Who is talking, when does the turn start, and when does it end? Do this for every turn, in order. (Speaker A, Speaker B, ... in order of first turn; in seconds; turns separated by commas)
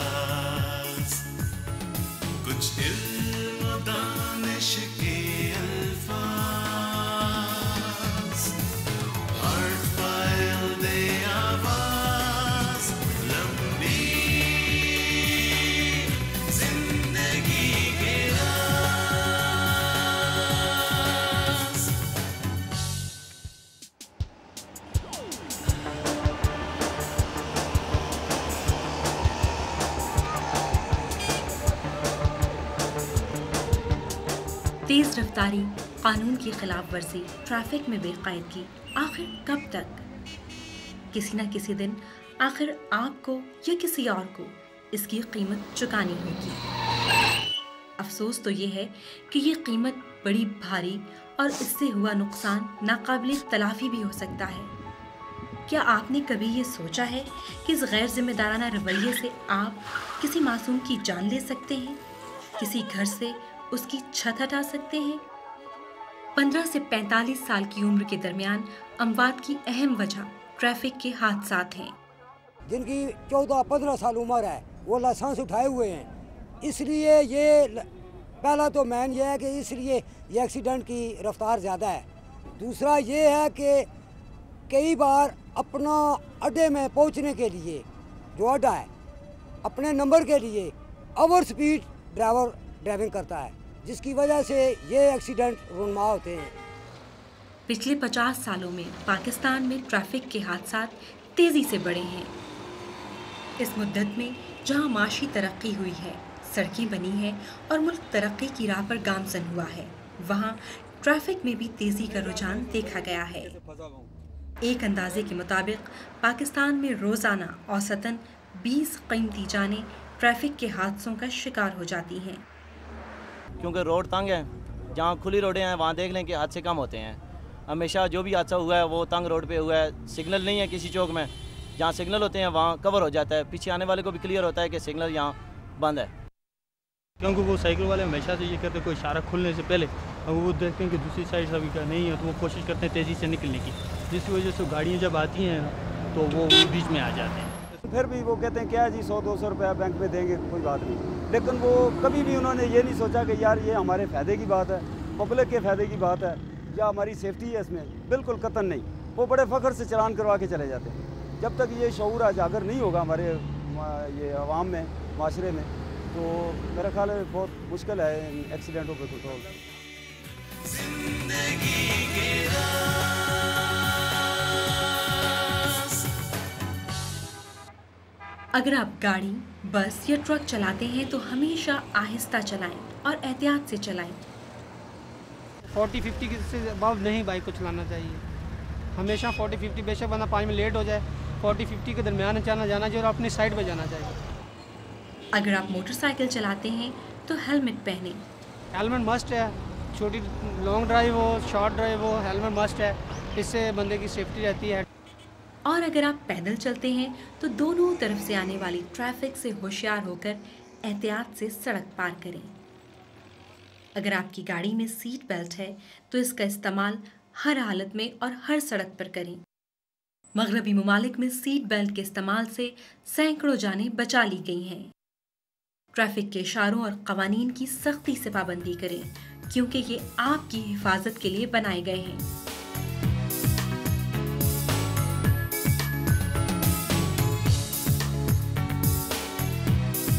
Speaker A: 2.4-6.2, Speaker B: 6.3-7.0, Speaker A: 9.3-12.1, Speaker A: 12.8-14.2, Speaker A: 16.5-18.6, Speaker C: 34.9-40.0, Speaker C: 41.1-46.7, Speaker C: 48.0-54.7, Speaker C: 55.7-62.0, Speaker C: 62.6-65.2, Speaker C: 66.4-72.0, Speaker D: 72.7-76.1, Speaker D: 76.6-77.9, Speaker D: 78.4-82.0, Speaker D: 82.6-83.9, Speaker D: 84.7-88.9, Speaker D: 89.6-96.5, Speaker C: 97.7-102.3, Speaker C: 103.6-113.6, Speaker C: 114.6-122.5, Speaker B: 123.6-136.1, Speaker E: 137.2-147.6, Speaker F: 147.8-169.5, Speaker A: 171.9-172.4, Speaker C: 178.6-184.2, Speaker G: 185.8-188.2, Speaker G: 189.0-194.1, Speaker C: 195.3-198.2, Speaker G: 198.7-204.9, Speaker C: 205.7-212.6, Speaker C: 214.0-219.4, Speaker C: 220.4-224.9, Speaker C: 225.9-232.3